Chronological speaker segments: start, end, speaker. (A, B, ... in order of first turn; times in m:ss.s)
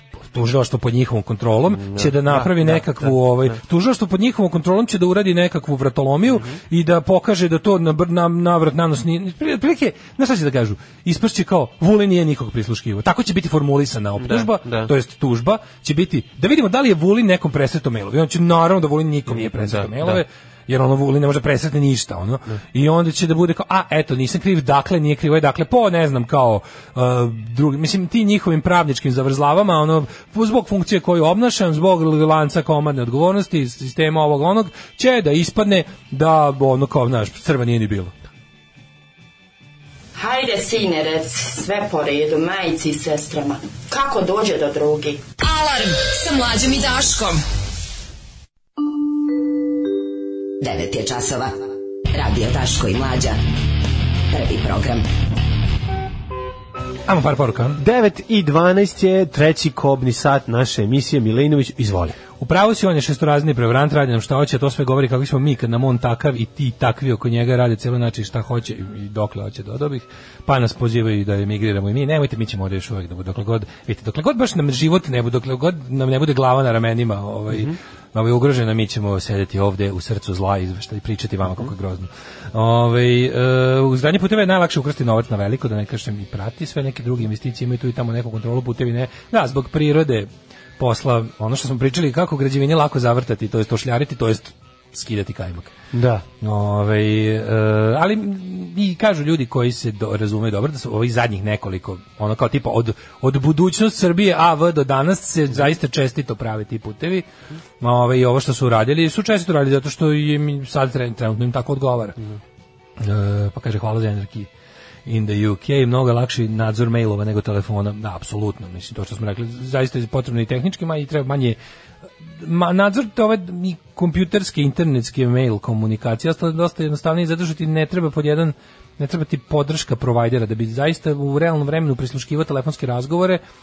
0:00.3-0:38.1 A
0:01.7-0:03.6 B
0:06.3-0:06.6 B
0:14.2-0:14.9 B
0:19.3-0:20.2 B
0:40.2-0:45.2 C
0:45.4-0:47.4 D
0:50.6-0:53.4 E
0:54.3-0:55.0 E
0:57.1-0:57.8 A
0:57.8-1:02.2 B
1:02.4-1:35.7 A
1:17.5-1:17.8 B
1:21.4-1:21.7 B
1:35.9-1:36.2 B
1:36.4-1:47.3 A
1:47.8-1:52.2 A
1:53.0-1:54.5 A
1:55.0-2:01.6 A
2:02.2-2:13.4 A